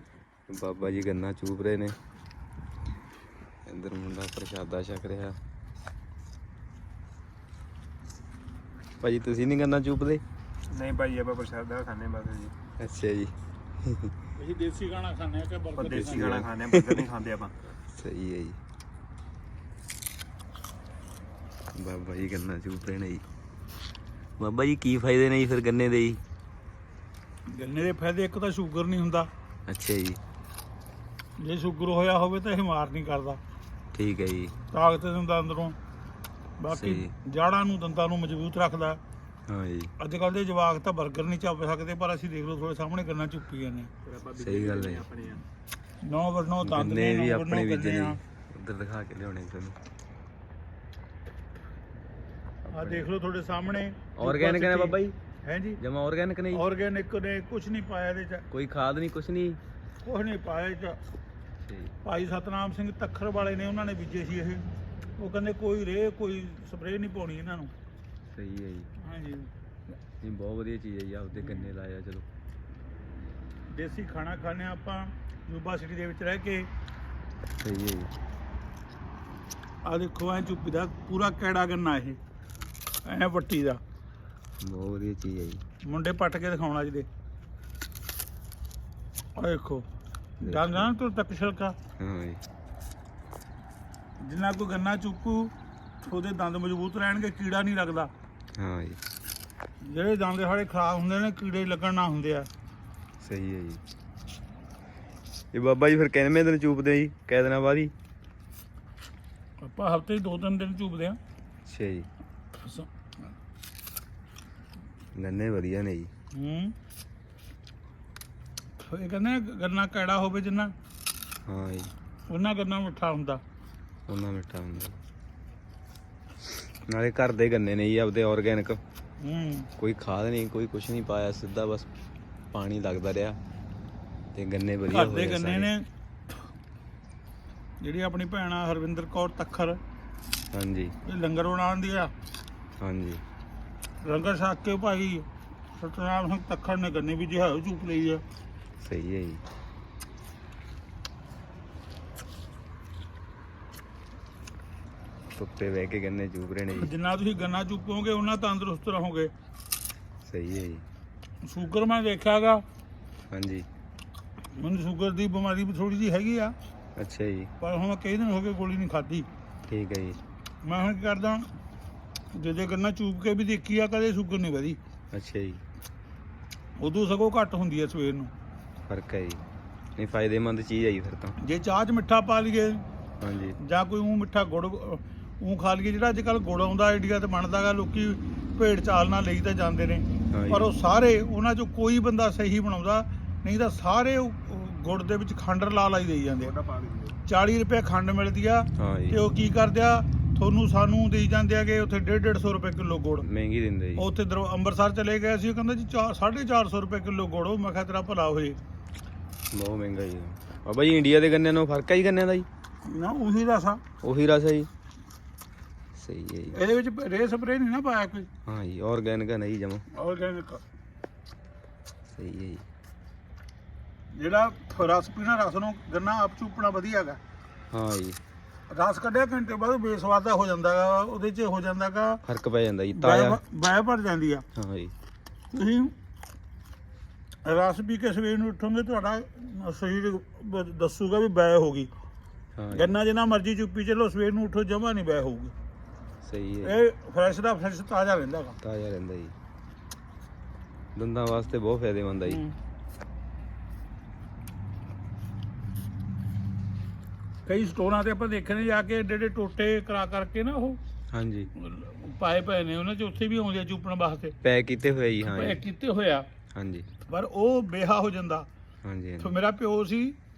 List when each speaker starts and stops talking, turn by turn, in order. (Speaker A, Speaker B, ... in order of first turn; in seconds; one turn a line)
Speaker A: 0.5-1.9
Speaker A: 3.7-5.4
Speaker A: 9.0-10.2
Speaker B: 10.7-12.5
Speaker A: 12.8-14.1
Speaker C: 14.3-16.4
Speaker B: 15.8-17.6
Speaker A: 16.0-17.1
Speaker A: 17.9-18.6
Speaker A: 21.8-23.2
Speaker A: 24.4-26.2
Speaker C: 27.5-29.3
Speaker A: 29.7-30.2
Speaker C: 31.4-33.4
Speaker A: 33.9-34.5
Speaker C: 34.7-35.8
Speaker C: 36.6-39.0
Speaker A: 36.7-37.1
Speaker A: 39.5-39.9
Speaker C: 40.0-43.9
Speaker B: 44.0-45.4
Speaker A: 44.4-45.1
Speaker C: 46.0-48.2
Speaker A: 46.6-49.8
Speaker A: 52.7-53.1
Speaker C: 52.7-55.8
Speaker A: 54.2-55.2
Speaker A: 55.8-56.6
Speaker C: 56.5-58.5
Speaker A: 58.5-59.6
Speaker C: 60.0-61.0
Speaker A: 61.6-61.9
Speaker C: 62.0-64.6
Speaker C: 65.2-67.7
Speaker A: 68.3-68.9
Speaker C: 69.0-69.5
Speaker A: 70.2-72.2
Speaker C: 71.4-71.7
Speaker C: 73.7-76.7
Speaker A: 77.6-78.1
Speaker C: 79.8-82.2
Speaker C: 83.0-83.8
Speaker A: 84.6-85.6
Speaker C: 85.8-87.1
Speaker C: 89.3-89.8
Speaker A: 90.4-90.9
Speaker C: 90.4-91.8
Speaker A: 92.0-92.4
Speaker C: 94.2-98.1
Speaker A: 98.5-99.0
Speaker C: 99.8-102.5
Speaker A: 103.2-103.8
Speaker A: 105.5-107.9
Speaker C: 109.6-111.2
Speaker A: 111.7-112.1
Speaker C: 112.5-112.9
Speaker A: 115.1-116.1
Speaker C: 116.3-116.7
Speaker C: 118.8-120.7
Speaker A: 121.5-121.9
Speaker C: 122.3-123.4
Speaker A: 124.1-125.0
Speaker A: 126.9-128.8
Speaker C: 129.2-129.7
Speaker A: 129.8-131.9
Speaker A: 132.5-133.4
Speaker A: 134.3-135.7
Speaker C: 134.9-135.8
Speaker C: 137.8-139.8
Speaker A: 140.5-140.9
Speaker C: 141.0-142.1
Speaker A: 142.8-143.2
Speaker C: 144.0-148.2
Speaker A: 148.8-149.4
Speaker A: 155.3-156.9
Speaker C: 156.8-159.3
Speaker A: 160.2-160.8
Speaker C: 161.4-162.6
Speaker A: 163.3-163.7
Speaker C: 164.6-166.5
Speaker A: 167.0-167.5
Speaker C: 167.6-169.3
Speaker A: 169.7-170.2
Speaker C: 170.6-171.5
Speaker C: 172.3-174.8
Speaker A: 175.1-175.6
Speaker C: 176.8-178.3
Speaker A: 178.9-179.4
Speaker A: 180.0-181.4
Speaker C: 181.4-182.8
Speaker A: 183.2-183.6
Speaker C: 183.6-196.5
Speaker A: 190.3-190.7
Speaker B: 196.6-197.1
Speaker C: 197.3-203.2
Speaker A: 198.8-199.2
Speaker A: 203.2-204.1
Speaker C: 204.0-208.6
Speaker A: 209.5-212.5
Speaker C: 212.8-213.8
Speaker A: 214.0-214.7
Speaker A: 215.9-216.6
Speaker C: 216.5-218.3
Speaker A: 218.4-219.8
Speaker C: 219.9-220.6
Speaker A: 222.1-222.6
Speaker C: 224.1-227.2
Speaker A: 227.7-228.2
Speaker C: 228.7-232.2
Speaker A: 232.2-233.4
Speaker C: 232.9-234.4
Speaker A: 234.5-234.9
Speaker C: 235.5-235.9
Speaker C: 237.4-241.9
Speaker A: 242.6-242.9
Speaker C: 242.7-245.5
Speaker A: 246.2-246.7
Speaker C: 246.6-248.6
Speaker A: 248.6-249.3
Speaker A: 250.9-252.4
Speaker C: 252.2-252.5
Speaker C: 257.4-260.8
Speaker A: 261.1-261.5
Speaker C: 261.5-264.3
Speaker A: 264.4-265.6
Speaker C: 265.2-266.2
Speaker A: 266.5-266.9
Speaker C: 267.1-268.5
Speaker A: 268.8-269.4
Speaker C: 269.2-270.2